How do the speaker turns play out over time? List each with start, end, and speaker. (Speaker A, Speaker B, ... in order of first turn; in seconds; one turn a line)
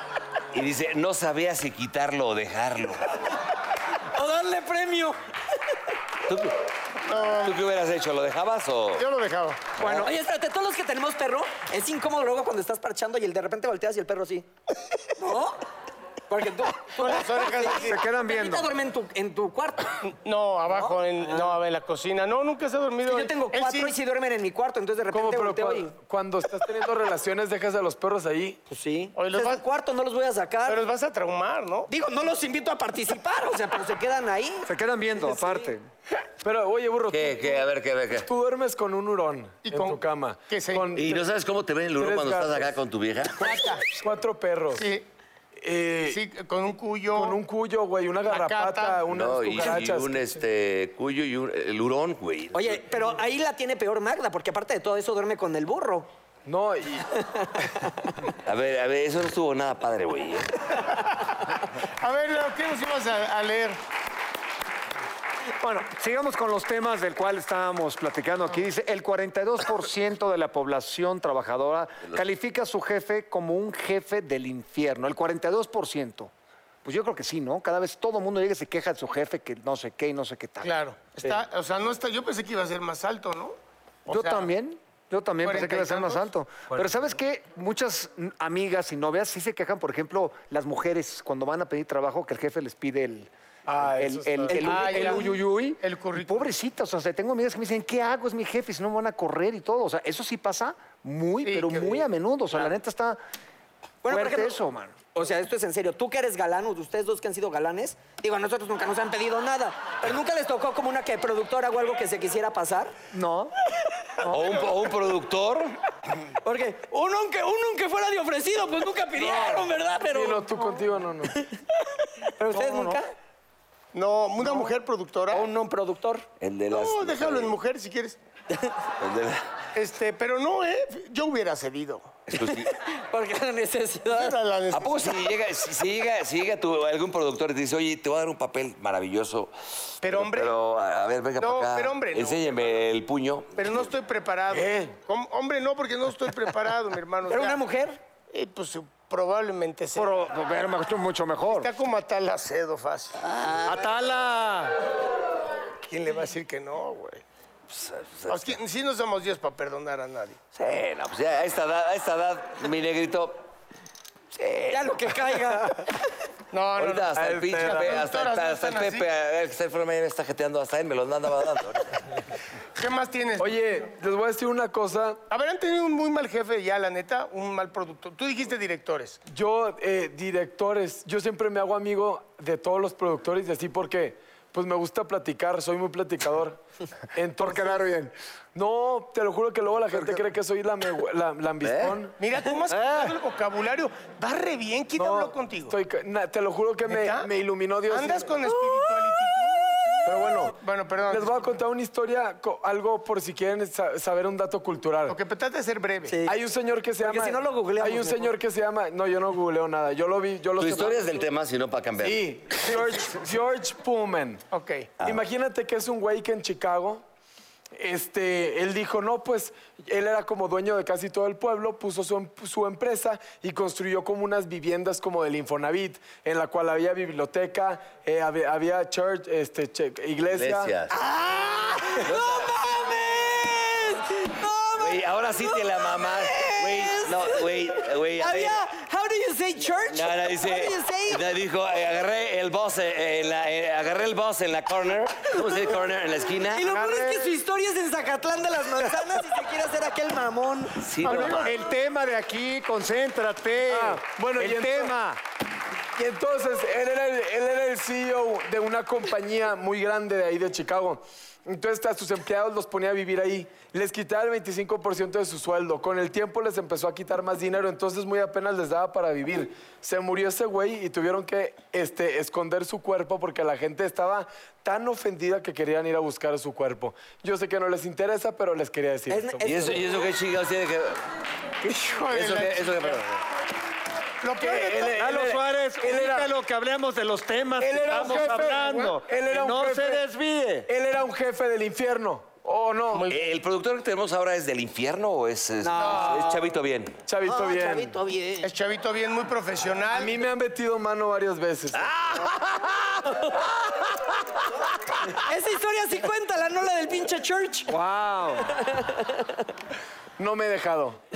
Speaker A: 0.5-3.2
Speaker B: 4.1-5.2
Speaker A: 6.3-6.5
Speaker C: 7.0-7.6
Speaker A: 7.4-9.0
Speaker C: 9.0-9.7
Speaker B: 9.8-14.5
Speaker A: 9.8-10.1
Speaker B: 15.2-15.6
Speaker B: 16.3-20.0
Speaker C: 17.0-18.0
Speaker D: 17.8-18.7
Speaker C: 20.1-24.0
Speaker B: 20.7-21.6
Speaker B: 23.0-25.9
Speaker E: 25.1-28.6
Speaker B: 28.7-30.8
Speaker C: 29.1-29.6
Speaker C: 30.6-31.9
Speaker B: 31.9-34.7
Speaker D: 34.6-35.9
Speaker B: 35.2-35.7
Speaker E: 36.4-41.2
Speaker A: 37.1-38.3
Speaker C: 39.6-40.9
Speaker A: 41.0-43.6
Speaker E: 42.0-42.7
Speaker C: 43.4-43.9
Speaker E: 43.9-44.9
Speaker C: 44.7-45.1
Speaker E: 45.6-46.2
Speaker C: 46.0-47.4
Speaker E: 47.1-50.4
Speaker C: 48.2-49.1
Speaker A: 49.1-52.9
Speaker B: 52.5-56.1
Speaker E: 56.5-57.1
Speaker B: 57.2-58.1
Speaker A: 58.4-60.8
Speaker C: 61.8-63.8
Speaker D: 65.6-76.3
Speaker D: 76.8-80.7
Speaker C: 80.6-83.5
Speaker C: 84.1-84.5
Speaker D: 84.1-103.2
Speaker C: 85.4-86.3
Speaker E: 93.7-95.2
Speaker C: 94.5-96.5
Speaker C: 101.4-102.0
Speaker B: 104.0-104.6
Speaker D: 104.1-105.0
Speaker B: 105.1-113.0
Speaker D: 113.1-113.5
Speaker A: 114.2-115.8
Speaker B: 116.4-121.6
Speaker E: 120.1-121.5
Speaker B: 122.2-123.1
Speaker D: 122.5-123.0
Speaker C: 123.9-125.5
Speaker B: 124.4-124.7
Speaker B: 125.3-126.2
Speaker A: 126.4-127.6
Speaker C: 126.7-128.2
Speaker A: 129.0-129.4
Speaker C: 129.8-132.2
Speaker A: 132.3-132.8
Speaker B: 132.4-134.4
Speaker C: 134.1-135.3
Speaker A: 134.7-139.5
Speaker C: 140.0-140.5
Speaker A: 140.0-143.9
Speaker C: 141.4-142.6
Speaker C: 143.6-147.6
Speaker B: 147.3-148.0
Speaker C: 148.3-150.2
Speaker D: 149.9-151.7
Speaker C: 151.5-153.2
Speaker B: 153.4-153.7
Speaker D: 153.6-154.8
Speaker C: 155.8-157.2
Speaker A: 157.7-158.6
Speaker C: 158.3-160.4
Speaker A: 160.5-163.4
Speaker A: 164.3-165.1
Speaker B: 164.7-165.9
Speaker C: 166.5-169.1
Speaker A: 166.8-172.1
Speaker E: 167.1-168.0
Speaker C: 172.8-173.6
Speaker E: 173.4-175.2
Speaker C: 175.3-179.2
Speaker E: 179.3-186.6
Speaker E: 187.1-187.8
Speaker D: 187.4-188.1
Speaker E: 188.5-192.1
Speaker A: 191.6-192.0
Speaker C: 192.2-195.8
Speaker D: 192.7-193.1
Speaker E: 195.0-198.4
Speaker C: 196.9-197.3
Speaker C: 197.9-201.5
Speaker E: 200.0-200.6
Speaker E: 201.1-205.2
Speaker C: 205.1-206.2
Speaker B: 206.1-206.3
Speaker E: 206.3-211.2
Speaker B: 207.0-208.3
Speaker A: 210.6-212.8
Speaker E: 212.0-214.4
Speaker C: 214.5-215.0
Speaker E: 215.0-217.0
Speaker E: 217.8-230.7
Speaker A: 230.3-231.0
Speaker B: 230.9-241.2
Speaker A: 232.0-232.5
Speaker A: 234.8-238.6
Speaker A: 239.9-246.7
Speaker B: 246.5-250.9
Speaker A: 250.8-251.5
Speaker C: 251.0-251.5
Speaker D: 251.1-255.2
Speaker E: 253.7-254.9
Speaker E: 256.0-279.5
Speaker B: 279.1-279.9
Speaker A: 279.4-281.0
Speaker C: 281.6-283.0
Speaker A: 282.1-283.2
Speaker C: 284.2-285.1
Speaker E: 284.4-286.3
Speaker D: 284.8-290.7
Speaker C: 287.6-289.7
Speaker E: 287.9-288.5
Speaker E: 289.2-290.0
Speaker E: 290.7-293.0
Speaker C: 292.9-293.2
Speaker A: 293.1-297.0
Speaker B: 295.7-296.3
Speaker C: 295.8-296.3
Speaker E: 297.1-298.0
Speaker B: 297.2-298.5
Speaker C: 298.4-300.2
Speaker E: 299.9-301.9
Speaker A: 301.8-302.6
Speaker B: 305.2-307.7
Speaker D: 307.7-308.5
Speaker B: 308.6-309.4
Speaker E: 310.2-311.0